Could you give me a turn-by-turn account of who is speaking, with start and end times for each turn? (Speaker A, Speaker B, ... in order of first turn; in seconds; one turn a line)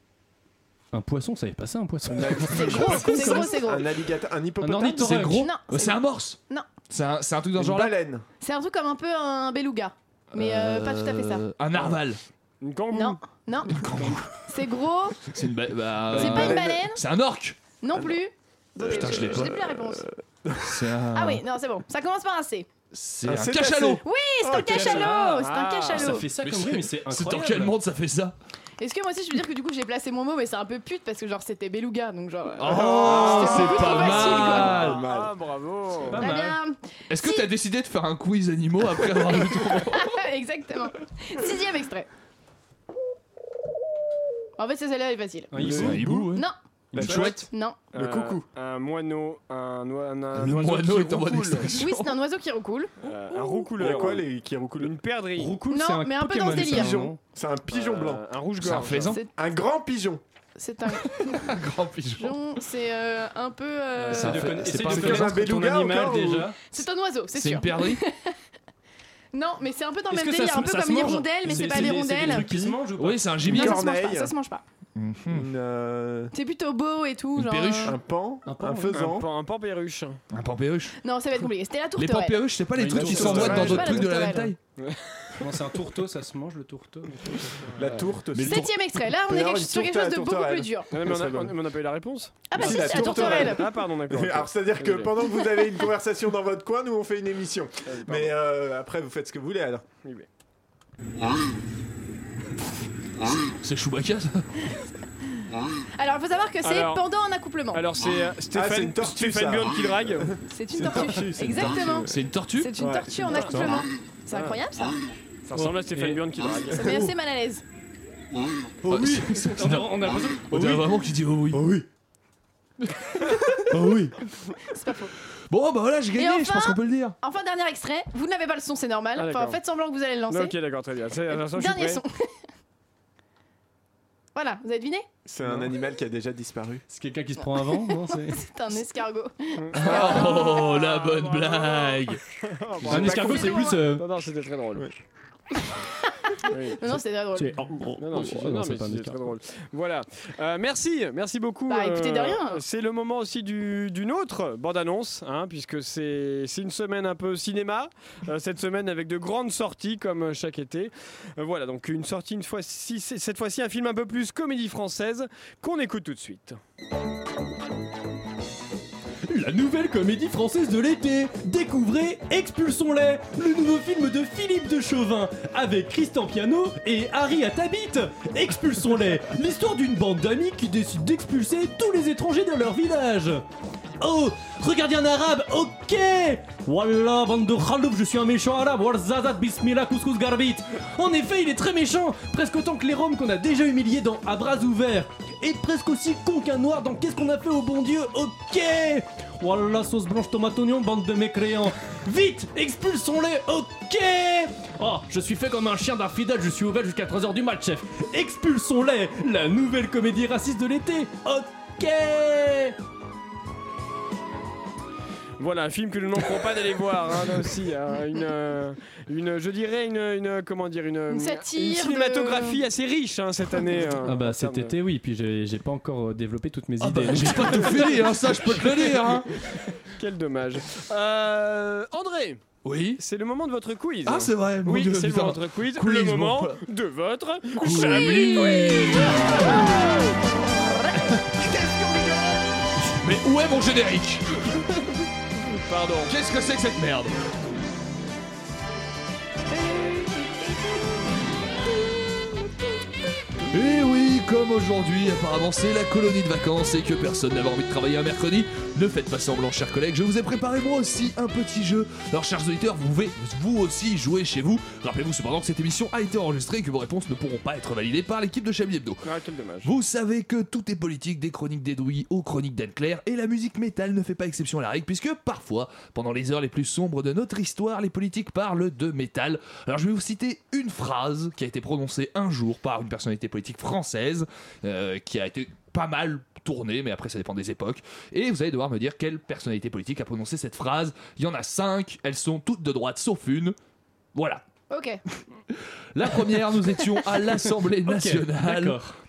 Speaker A: 0.9-3.5
Speaker B: 2.0-5.2
Speaker C: 2.5-4.0
Speaker A: 4.6-5.5
Speaker D: 5.0-8.0
Speaker C: 5.3-6.7
Speaker B: 7.6-8.2
Speaker C: 8.4-11.4
Speaker D: 10.4-12.2
Speaker E: 12.6-13.2
Speaker C: 12.9-13.9
Speaker D: 13.7-14.4
Speaker C: 14.5-15.3
Speaker D: 15.3-17.6
Speaker B: 16.1-16.9
Speaker C: 16.1-17.0
Speaker C: 17.8-20.1
Speaker B: 18.8-20.9
Speaker D: 18.8-19.7
Speaker D: 20.6-21.4
Speaker C: 21.1-22.7
Speaker D: 22.9-24.0
Speaker B: 23.2-25.2
Speaker C: 24.0-26.3
Speaker A: 24.7-27.7
Speaker E: 25.1-26.2
Speaker D: 26.4-28.4
Speaker C: 28.8-34.9
Speaker D: 32.6-35.0
Speaker B: 32.6-35.3
Speaker E: 33.0-36.3
Speaker A: 36.1-36.6
Speaker C: 36.2-37.5
Speaker D: 37.1-40.1
Speaker C: 39.9-42.1
Speaker C: 44.6-46.5
Speaker A: 45.5-46.3
Speaker D: 45.6-47.5
Speaker A: 46.9-47.4
Speaker B: 47.0-47.3
Speaker C: 47.5-47.8
Speaker E: 47.9-51.8
Speaker B: 47.9-48.5
Speaker D: 50.3-52.1
Speaker C: 51.8-53.7
Speaker E: 53.0-54.3
Speaker B: 53.8-54.9
Speaker E: 54.8-55.6
Speaker A: 55.4-57.2
Speaker C: 55.7-57.0
Speaker B: 56.5-58.2
Speaker E: 57.7-59.2
Speaker D: 58.6-59.2
Speaker B: 59.4-60.2
Speaker C: 60.6-61.6
Speaker D: 61.2-62.4
Speaker C: 62.2-64.7
Speaker A: 64.0-66.6
Speaker D: 64.1-65.5
Speaker B: 64.7-66.5
Speaker C: 66.7-68.4
Speaker D: 67.3-68.0
Speaker C: 69.3-72.5
Speaker A: 70.1-73.7
Speaker B: 71.7-72.8
Speaker D: 72.9-73.9
Speaker B: 73.4-74.3
Speaker C: 73.5-74.6
Speaker D: 75.0-75.5
Speaker B: 75.3-76.3
Speaker C: 76.3-78.0
Speaker D: 77.3-78.0
Speaker B: 77.8-79.3
Speaker A: 78.5-79.1
Speaker E: 78.9-80.2
Speaker D: 80.3-81.0
Speaker C: 81.0-82.5
Speaker D: 82.0-84.6
Speaker A: 82.8-83.9
Speaker B: 83.0-84.0
Speaker C: 83.3-84.5
Speaker E: 84.8-85.4
Speaker A: 85.4-87.5
Speaker B: 87.7-88.7
Speaker E: 87.8-88.1
Speaker D: 88.3-88.7
Speaker C: 88.5-90.9
Speaker B: 89.2-91.6
Speaker E: 90.9-95.1
Speaker C: 92.5-93.7
Speaker B: 92.5-99.8
Speaker E: 97.9-98.3
Speaker D: 103.6-104.5
Speaker C: 106.0-107.8
Speaker E: 106.6-107.0
Speaker E: 107.7-110.3
Speaker B: 108.5-112.2
Speaker C: 110.5-115.0
Speaker D: 112.1-112.7
Speaker B: 112.8-113.8
Speaker E: 113.3-113.7
Speaker E: 114.3-114.6
Speaker E: 115.5-117.0
Speaker A: 115.5-116.2
Speaker C: 116.7-117.6
Speaker A: 118.8-121.0
Speaker D: 118.9-121.7
Speaker A: 121.5-121.8
Speaker A: 123.7-124.2
Speaker C: 124.7-125.1
Speaker D: 125.5-127.2
Speaker C: 126.2-130.5
Speaker E: 129.2-129.6
Speaker E: 130.3-132.0
Speaker C: 131.3-132.3
Speaker C: 134.3-135.1
Speaker B: 135.2-136.8
Speaker A: 136.9-138.4
Speaker C: 137.5-140.8
Speaker E: 139.6-144.9
Speaker D: 139.8-142.2
Speaker B: 142.8-143.7
Speaker A: 142.9-144.1
Speaker C: 143.1-143.8
Speaker C: 146.2-147.7
Speaker E: 146.5-146.8
Speaker A: 147.3-149.3
Speaker E: 148.0-166.6
Speaker C: 151.7-152.6
Speaker A: 169.3-183.5
Speaker A: 184.0-212.8
Speaker E: 215.4-224.7
Speaker C: 221.1-222.6
Speaker A: 224.1-227.7
Speaker D: 226.8-229.3
Speaker E: 227.7-232.4
Speaker D: 232.6-233.0
Speaker E: 233.0-239.8
Speaker D: 234.1-236.6
Speaker D: 237.6-239.7
Speaker C: 238.0-241.2
Speaker B: 241.3-242.5
Speaker D: 243.0-244.5
Speaker E: 245.4-246.2
Speaker D: 246.1-247.2
Speaker C: 249.6-250.9
Speaker D: 253.5-269.1
Speaker E: 269.0-269.7
Speaker D: 269.6-293.6
Speaker D: 294.1-294.4
Speaker C: 294.7-295.0
Speaker D: 295.9-298.9
Speaker A: 297.9-298.9